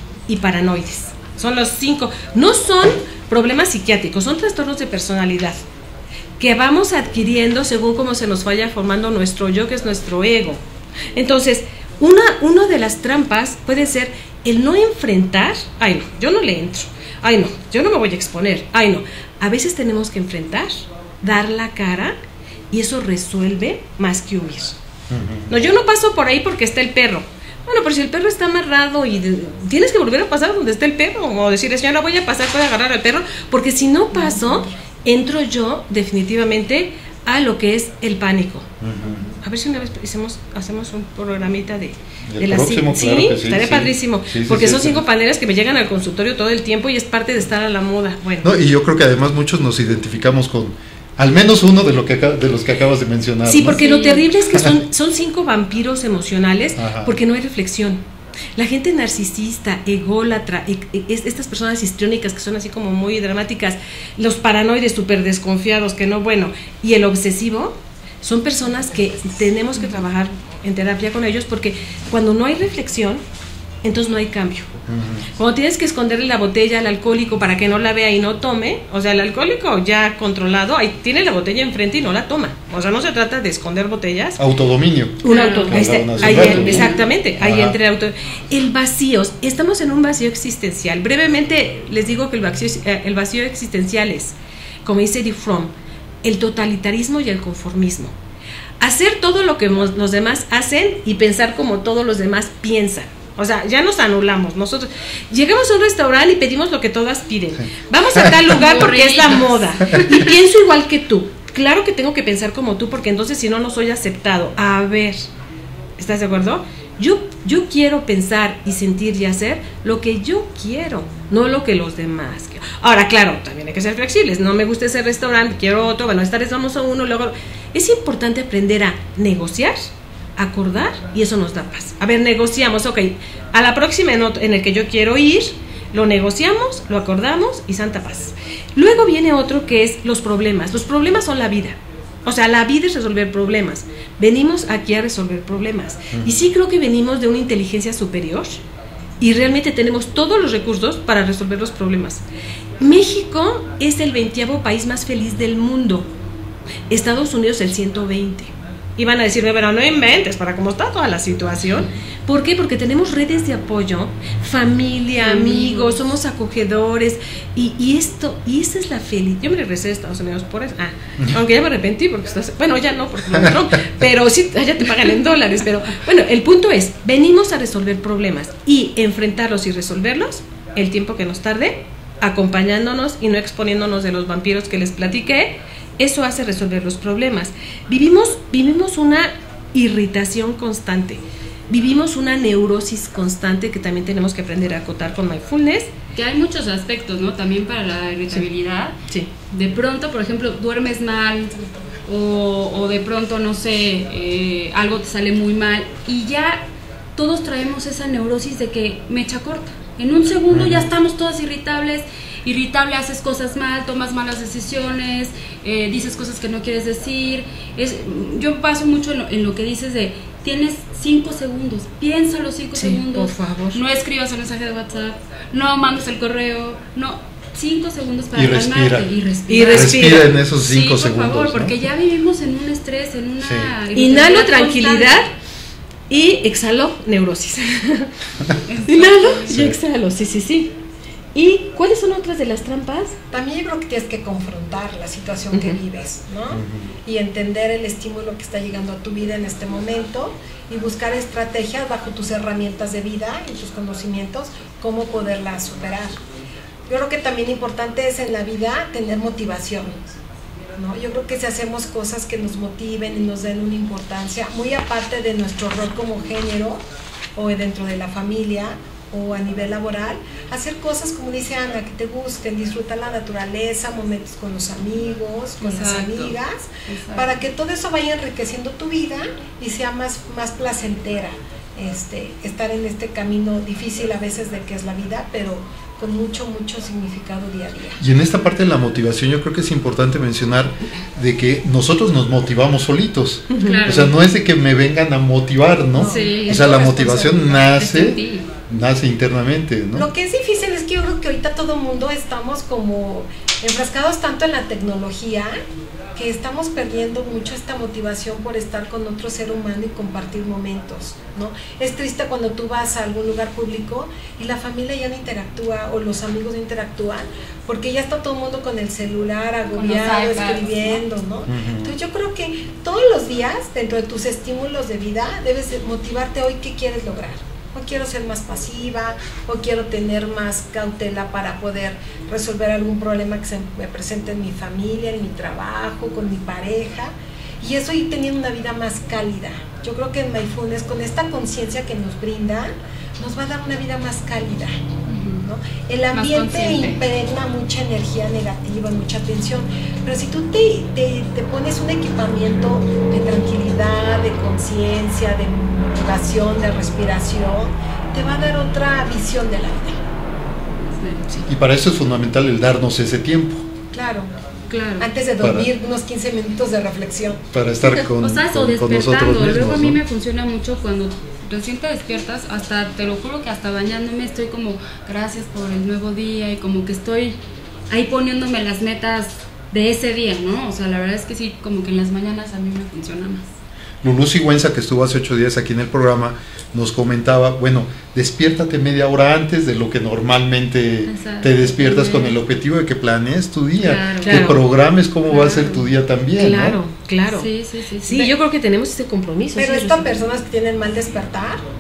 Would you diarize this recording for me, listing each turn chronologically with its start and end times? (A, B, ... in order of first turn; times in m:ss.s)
0:00.3-0:05.6 A
0:06.4-0:10.6 A
0:11.1-0:22.2 A
0:22.7-0:24.8 A
0:25.1-0:25.5 B
0:25.5-0:38.7 A
0:38.8-0:39.3 B
0:39.4-0:48.5 A
0:42.3-0:45.0 B
0:48.4-0:53.8 B
0:53.4-0:58.0 A
0:53.7-0:54.2 C
0:54.5-0:54.8 B
0:56.8-0:57.2 B
0:58.6-1:13.2 A
1:13.8-1:14.7 A
1:14.9-1:15.3 B
1:15.4-1:24.4 A
1:24.4-1:27.8 B
1:25.2-1:35.7 A
1:25.3-1:27.0 C
1:36.2-1:38.1 A
1:38.8-1:55.3 A
1:48.2-1:48.4 B
1:48.5-1:50.2 C
1:56.0-2:28.6 A
2:26.1-2:26.4 B
2:29.2-2:32.2 A
2:32.8-2:36.1 A
2:36.9-3:15.9 A
2:45.2-2:46.0 C
2:53.3-2:53.7 B
3:16.2-3:55.2 C
3:30.5-3:30.9 B
3:42.8-3:43.8 A
3:48.4-3:49.1 B
3:49.5-3:50.3 A
3:49.7-3:51.8 B
3:53.4-3:53.7 B
3:54.0-3:55.3 A
3:56.1-3:58.1 A
3:58.7-3:59.6 C
3:58.8-4:00.7 A
3:59.5-3:59.8 B
4:01.4-4:03.2 A
4:03.3-4:16.2 D
4:05.5-4:05.8 A
4:06.5-4:06.9 B
4:16.9-4:20.2 D
4:20.8-4:26.8 D
4:27.4-4:48.0 D
4:35.6-4:37.4 C
4:48.0-5:00.1 B
4:53.5-4:53.8 A
4:53.6-4:54.2 C
4:55.9-4:57.8 D
4:56.0-4:56.7 C
4:57.7-4:58.5 C
4:59.9-5:05.6 D
5:06.2-5:44.8 D
5:19.7-5:21.0 C
5:21.5-5:22.0 B
5:45.1-5:45.5 C
5:45.4-6:00.0 D
5:46.1-5:47.0 C
6:00.8-6:01.4 C
6:01.5-6:03.6 B
6:03.9-6:04.3 D
6:04.7-6:05.1 C
6:05.0-6:07.4 D
6:05.4-6:05.7 B
6:07.5-6:10.0 B
6:08.2-6:17.4 C
6:17.9-6:23.5 C
6:24.0-6:36.8 B
6:31.1-6:32.4 C
6:33.8-6:34.4 C
6:34.2-6:34.6 A
6:35.3-6:35.9 C
6:36.4-6:37.5 A
6:37.3-6:38.3 C
6:38.0-6:40.2 A
6:39.6-6:41.6 D